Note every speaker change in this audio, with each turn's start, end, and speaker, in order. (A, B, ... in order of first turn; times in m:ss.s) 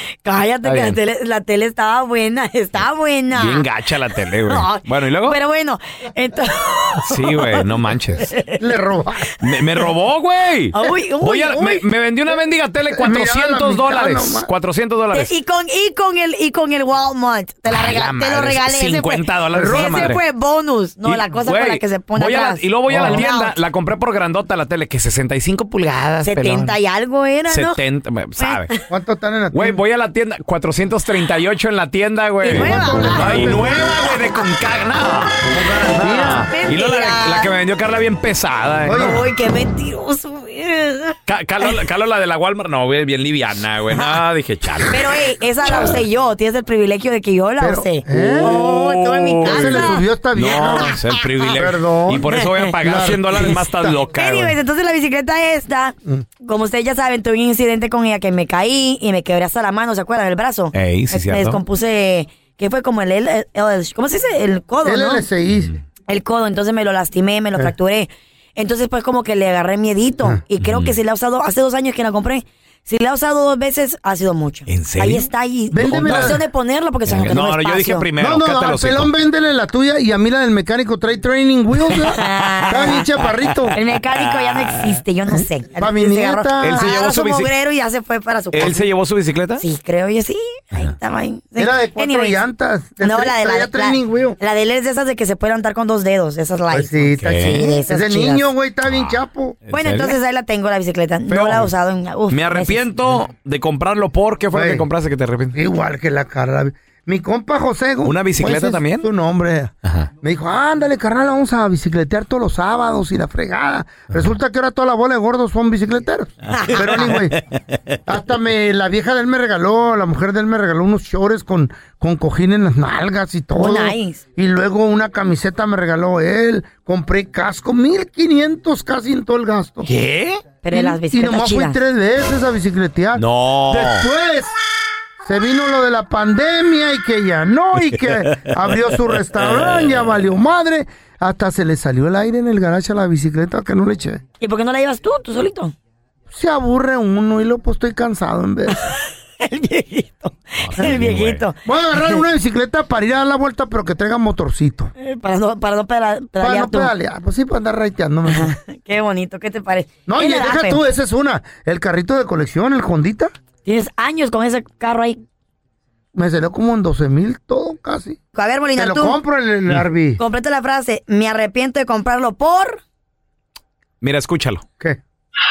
0:00.2-0:03.6 A
0:00.6-0:01.0 B
0:03.3-0:05.4 B
0:04.5-0:07.7 A
0:07.0-0:08.3 B
0:08.2-0:08.6 A
0:08.6-0:09.3 C
0:09.4-0:15.3 B
0:10.7-0:11.5 A
0:11.5-0:11.9 C
0:12.9-0:14.5 C
0:15.1-0:23.6 A
0:17.7-0:20.2 B
0:19.5-0:20.2 C
0:21.0-0:26.7 B
0:22.8-0:23.3 C
0:26.2-0:27.8 A
0:27.5-0:28.7 B
0:28.4-0:28.8 A
0:28.9-0:29.8 C
0:29.5-0:39.2 B
0:32.4-0:33.5 A
0:32.5-0:34.0 C
0:35.5-0:36.5 C
0:36.4-0:37.5 A
0:38.9-0:39.3 C
0:38.9-0:41.2 A
0:41.3-0:46.0 B
0:44.9-0:50.0 A
0:45.6-0:45.9 C
0:47.6-0:48.6 C
0:48.4-0:54.6 B
0:49.4-0:51.0 C
0:50.6-0:51.6 A
0:51.6-0:54.0 C
0:54.1-1:05.3 A
1:00.7-1:01.6 B
1:04.8-1:05.7 C
1:06.1-1:18.1 A
1:10.6-1:11.0 B
1:14.7-1:15.3 B
1:15.7-1:16.4 C
1:15.8-1:16.4 B
1:17.1-1:19.1 B
1:18.1-1:23.8 C
1:22.0-1:23.1 A
1:23.7-1:25.0 B
1:23.7-1:28.9 A
1:25.3-1:27.0 C
1:26.6-1:27.5 B
1:28.5-1:29.6 B
1:29.6-1:32.4 A
1:31.6-1:34.4 C
1:33.0-1:38.5 A
1:36.7-1:39.6 C
1:37.2-1:37.7 B
1:39.7-1:40.2 B
1:39.7-1:42.8 A
1:41.3-1:41.7 B
1:42.3-1:45.6 B
1:44.5-1:44.9 C
1:45.5-1:57.4 C
1:48.0-1:49.1 B
1:56.5-1:57.2 A
1:58.1-2:09.9 C
2:03.5-2:04.2 A
2:09.9-2:10.4 B
2:10.6-2:11.8 A
2:10.7-2:14.5 C
2:13.2-2:14.1 B
2:15.2-2:24.2 C
2:19.3-2:20.1 B
2:24.4-2:25.7 A
2:26.3-2:28.8 C
2:28.7-2:32.2 A
2:30.6-2:31.5 B
2:31.6-2:34.9 C
2:35.0-2:37.0 A
2:36.4-2:38.6 C
2:38.2-2:40.8 A
2:40.0-2:43.3 C
2:43.6-2:45.2 A
2:46.2-2:48.2 C
2:48.4-2:49.2 A
2:48.8-2:50.2 C
2:50.2-2:52.8 A
2:54.0-2:54.6 B